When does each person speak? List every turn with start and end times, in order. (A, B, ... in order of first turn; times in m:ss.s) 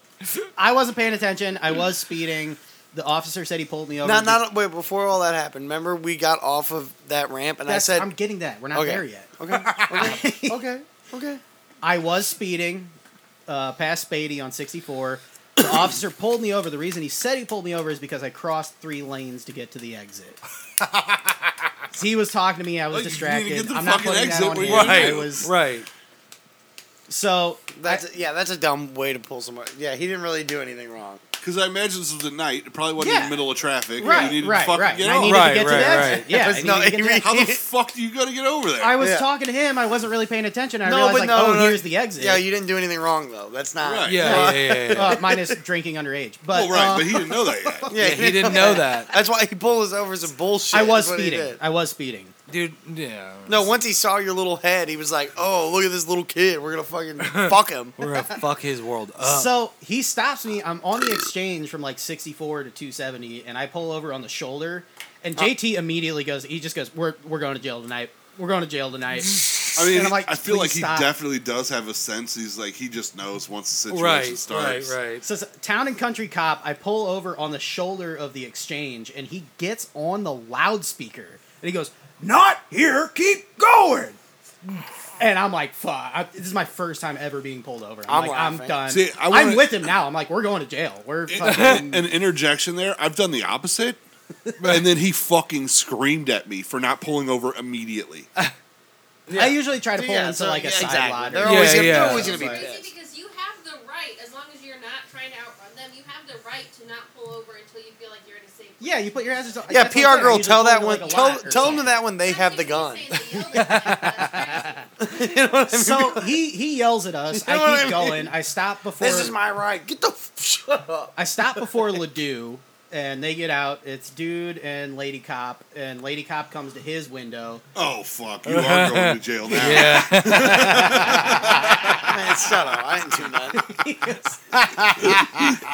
0:00.6-0:04.4 A
0:04.0-0:08.1 B
0:07.7-0:10.6 A
0:08.7-0:11.4 B
0:11.8-0:12.9 A
0:13.5-0:20.4 A
0:21.9-0:25.5 A
0:22.9-0:25.5 C
0:24.6-0:25.9 D
0:27.1-0:28.0 A
0:27.7-0:31.2 B
0:31.4-0:36.2 C
0:33.0-0:33.4 A
0:34.0-0:37.3 A
0:34.0-0:34.4 B
0:35.2-0:36.3 D
0:36.3-0:37.6 B
0:37.2-0:39.0 C
0:38.8-0:42.4 A
0:39.0-0:39.3 B
0:40.8-0:45.6 B
0:43.8-0:44.4 C
0:44.0-0:45.2 D
0:44.2-0:47.9 A
0:46.5-0:47.9 C
0:47.9-0:51.6 B
0:48.0-0:49.1 D
0:48.5-0:48.8 A
0:50.7-0:52.3 A
0:52.5-0:53.7 D
0:53.4-0:58.0 B
0:57.2-0:59.5 D
0:59.2-1:11.1 A
1:09.8-1:15.0 C
1:13.9-1:15.2 D
1:15.2-1:24.2 A
1:25.2-1:32.1 A
1:28.1-1:28.8 B
1:28.9-1:29.9 C
1:31.3-1:34.0 C
1:31.4-1:31.9 D
1:34.6-1:34.8 D
1:34.6-1:38.3 C
1:39.3-1:39.5 D
1:39.3-1:42.7 A
1:40.0-1:42.9 B
1:41.4-1:42.3 D
1:42.3-1:49.7 E
1:48.8-1:52.0 A
1:49.7-1:53.7 B
1:51.4-1:55.1 E
1:53.5-1:54.4 D
1:55.0-1:56.4 B
1:55.7-1:59.4 A
1:57.3-1:58.3 B
1:59.0-2:02.0 B
2:01.2-2:07.6 A
2:07.7-2:12.1 C
2:08.4-2:11.5 D
2:11.9-2:13.7 B
2:13.5-2:14.7 A
2:14.6-2:15.5 D